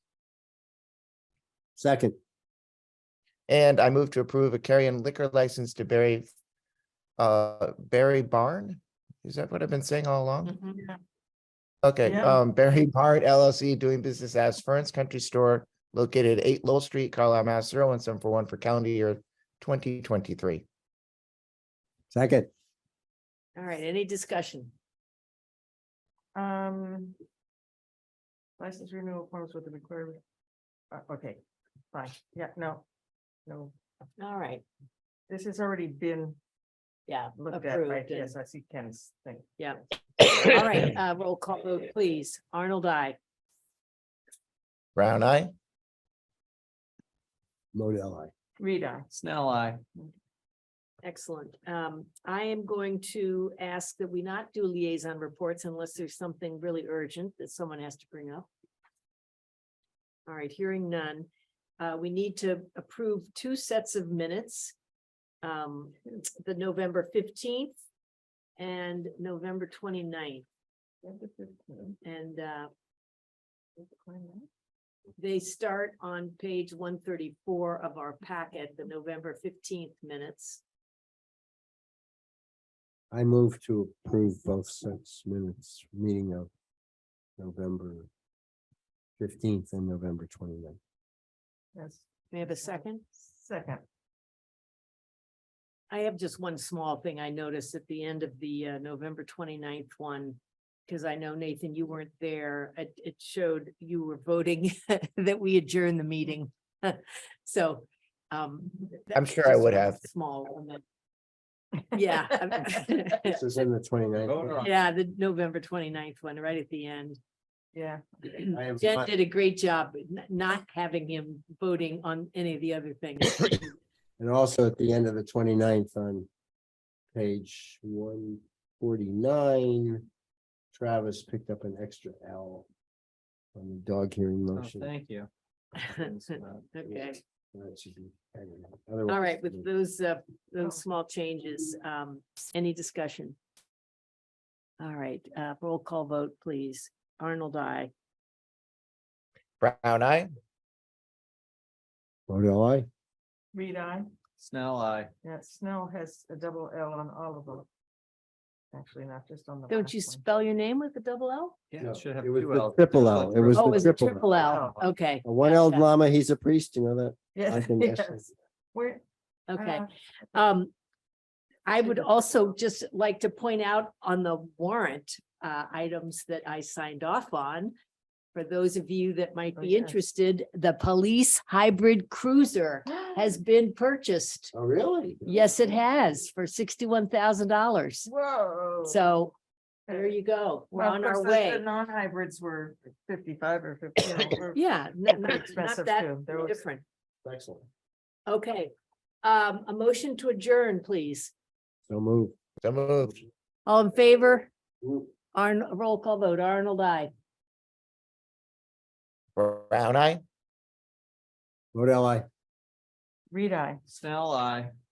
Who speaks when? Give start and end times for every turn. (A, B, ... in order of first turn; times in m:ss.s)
0:01.8-0:02.2 A
0:03.5-0:06.2 B
0:07.2-0:10.5 B
0:10.4-0:10.8 C
0:11.8-0:20.6 B
0:12.0-0:12.4 D
0:22.1-0:22.5 A
0:23.6-0:24.7 C
0:26.3-0:27.2 D
0:28.6-0:30.2 D
0:30.9-0:32.8 D
0:33.4-0:33.7 D
0:34.2-0:34.6 C
0:35.3-0:36.4 D
0:37.1-0:38.3 C
0:37.4-0:39.5 D
0:40.3-0:43.2 C
0:45.0-0:45.5 B
0:47.7-0:48.3 A
0:48.6-0:49.1 D
0:49.1-0:49.8 E
0:51.0-0:58.5 C
1:00.3-1:01.3 C
1:01.8-1:04.7 C
1:05.4-1:07.7 C
1:08.6-1:10.4 C
1:11.0-1:12.0 D
1:12.0-1:12.7 C
1:13.8-1:14.5 D
1:15.2-1:20.6 C
1:23.1-1:26.5 A
1:27.4-1:28.1 A
1:29.2-1:30.8 A
1:31.7-1:32.0 D
1:32.3-1:33.0 C
1:33.2-1:33.8 D
1:35.9-1:50.8 C
1:49.1-1:50.0 B
1:51.9-1:53.4 C
1:53.3-1:54.7 A
1:54.2-1:54.7 E
1:54.6-1:57.2 C
1:57.7-1:58.4 D
1:58.3-2:03.7 C
1:58.5-1:59.1 A
2:04.2-2:06.3 A
2:07.1-2:10.0 A
2:10.7-2:12.7 A
2:13.5-2:14.9 A
2:14.5-2:15.3 E
2:15.8-2:17.2 C
2:16.1-2:16.6 E
2:17.5-2:19.6 A
2:19.1-2:23.4 C
2:24.8-2:27.9 C
2:29.6-2:30.3 B
2:32.3-2:32.9 A
2:33.5-2:34.1 D
2:34.4-2:35.1 E
2:35.2-2:37.6 D
2:38.7-2:40.2 D
2:39.7-2:41.6 C
2:41.7-2:43.8 E
2:41.8-2:44.5 A
2:43.5-2:45.9 C
2:44.4-2:44.8 D
2:45.2-2:48.2 A
2:47.3-2:49.9 D
2:49.5-2:50.7 C
2:51.6-2:57.7 C
2:58.3-3:04.5 C
2:59.6-3:00.0 D
3:02.9-3:03.4 D
3:04.5-3:05.4 A
3:05.2-3:08.1 C
3:08.0-3:09.0 D
3:08.8-3:09.3 C
3:09.9-3:11.6 C
3:10.7-3:16.6 D
3:14.5-3:16.8 C
3:17.2-3:17.6 A
3:18.3-3:18.7 C
3:19.2-3:21.3 C
3:21.9-3:22.3 A
3:22.6-3:23.2 B
3:23.6-3:24.5 C
3:25.3-3:27.1 C
3:29.4-3:30.2 B
3:31.7-3:32.2 A
3:33.3-3:33.8 D
3:33.9-3:34.7 E